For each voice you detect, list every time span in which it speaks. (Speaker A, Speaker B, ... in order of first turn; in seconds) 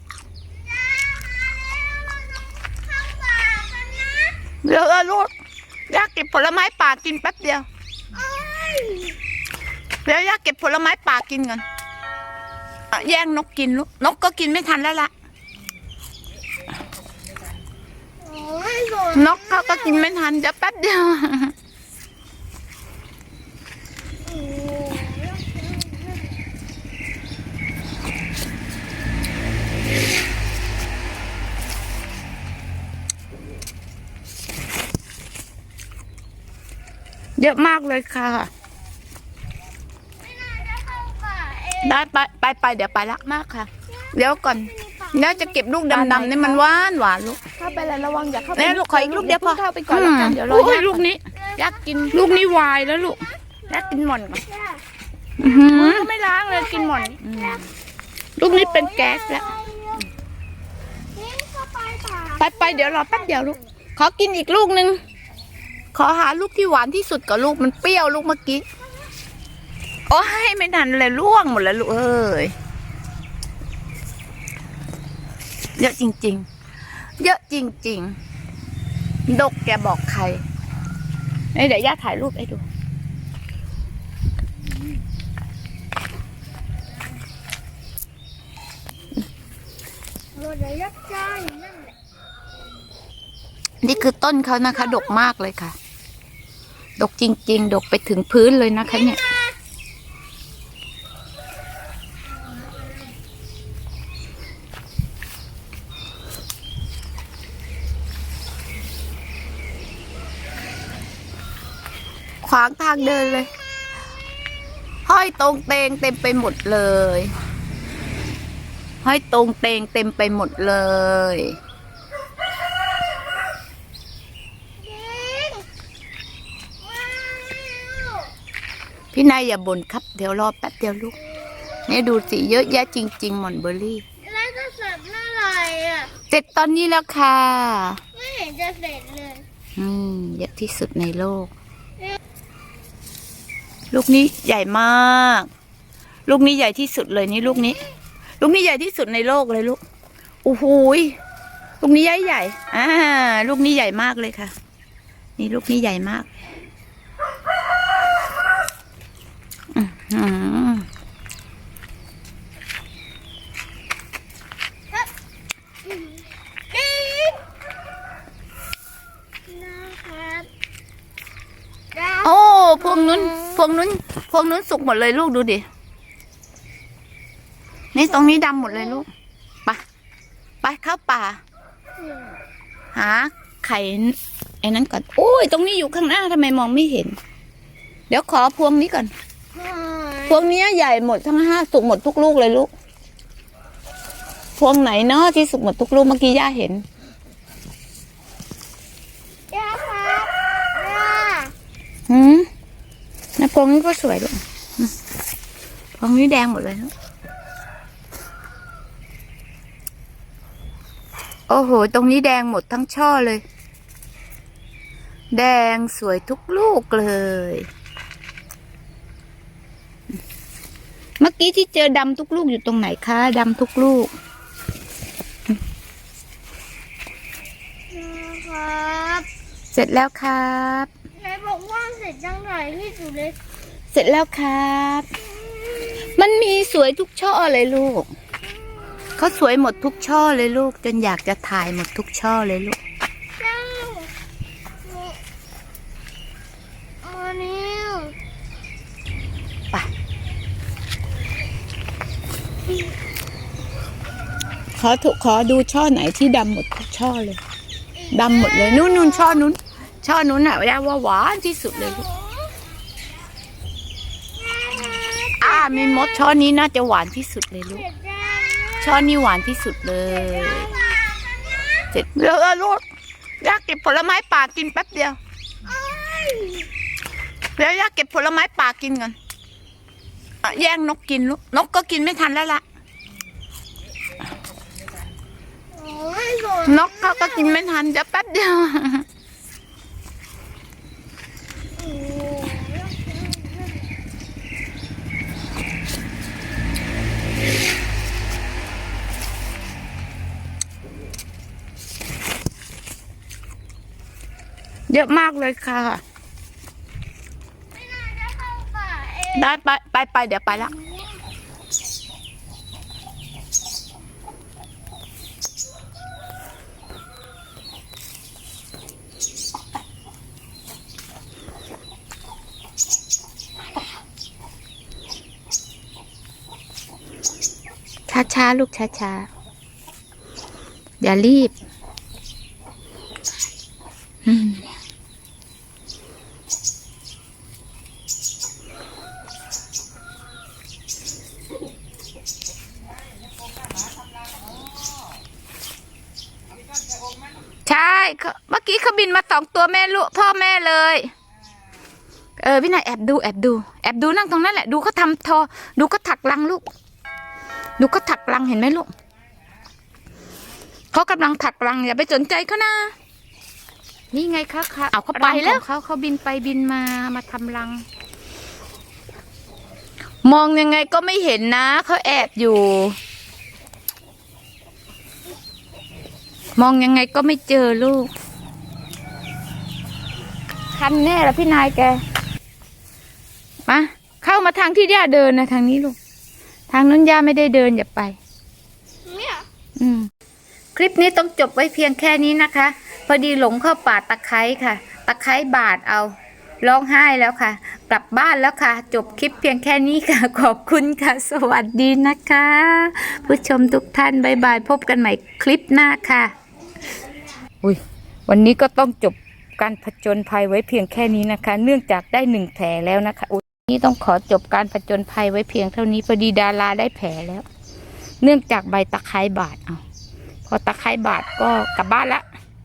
Speaker A: 0.8-4.4, 8.1-9.2, 18.2-20.1, 24.2-26.2, 40.2-42.0, 44.1-45.5, 47.8-48.6, 51.5-53.9, 56.5-57.6, 58.5-60.0, 61.1-63.5, 90.3-91.9, 124.8-125.7, 126.8-128.3, 134.2-136.1, 138.1-139.4, 166.7-167.4, 169.5-170.5, 171.9-172.2, 189.5-190.3, 199.5-201.5, 227.9-229.3, 231.1-233.4, 243.4-244.1, 244.9-245.2, 247.0-248.1, 258.0-259.4, 262.1-262.5, 264.4-266.0, 267.8-269.0, 270.2-271.9, 275.6-276.7, 285.7-287.5, 291.8-293.8, 307.8-309.4, 389.1-389.4
Speaker B: 4.6-5.3, 5.9-7.7, 10.0-11.6, 12.9-15.1, 19.1-21.5, 37.4-38.5, 41.8-47.5, 48.5-54.4, 55.4-57.6, 58.4-59.5, 62.4-65.0, 65.9-68.6, 70.1-72.5, 75.8-76.5, 77.2-78.2, 79.3-80.4, 81.5-82.6, 93.8-95.7, 97.0-99.2, 112.4-113.5, 115.0-117.3, 119.0-121.6, 129.1-131.2, 131.9-134.0, 136.3-138.0, 139.8-141.5, 143.9-145.5, 146.2-147.8, 148.4-149.8, 150.4-151.2, 151.8-154.5, 155.4-156.3, 159.7-160.8, 172.2-175.7, 177.9-179.1, 180.6-181.4, 182.9-187.2, 188.1-189.1, 190.2-192.7, 194.6-196.8, 202.1-202.5, 203.4-204.9, 206.0-206.9, 211.5-213.4, 215.3-217.7, 221.2-224.1, 229.7-230.9, 233.9-235.1, 236.0-238.1, 239.2-242.8, 254.8-257.4, 258.1-262.1, 265.4-267.8, 268.8-270.7, 271.9-272.8, 273.4-275.2, 277.6-279.1, 280.4-282.6, 286.6-289.0, 304.9-306.0, 309.3-310.7, 328.1-329.3, 331.0-331.5, 334.2-334.6, 347.6-351.1, 352.4-356.6, 357.8-358.9, 360.9-362.9, 364.1-367.8, 370.2-373.0, 376.6-378.1, 380.7-382.0, 383.7-385.9, 386.7-388.2, 389.8-390.1, 390.7-406.3, 407.6-417.4, 418.2-419.8, 420.5-422.2
Speaker C: 45.9-46.7, 47.4-51.0, 55.4-57.0, 365.1-365.6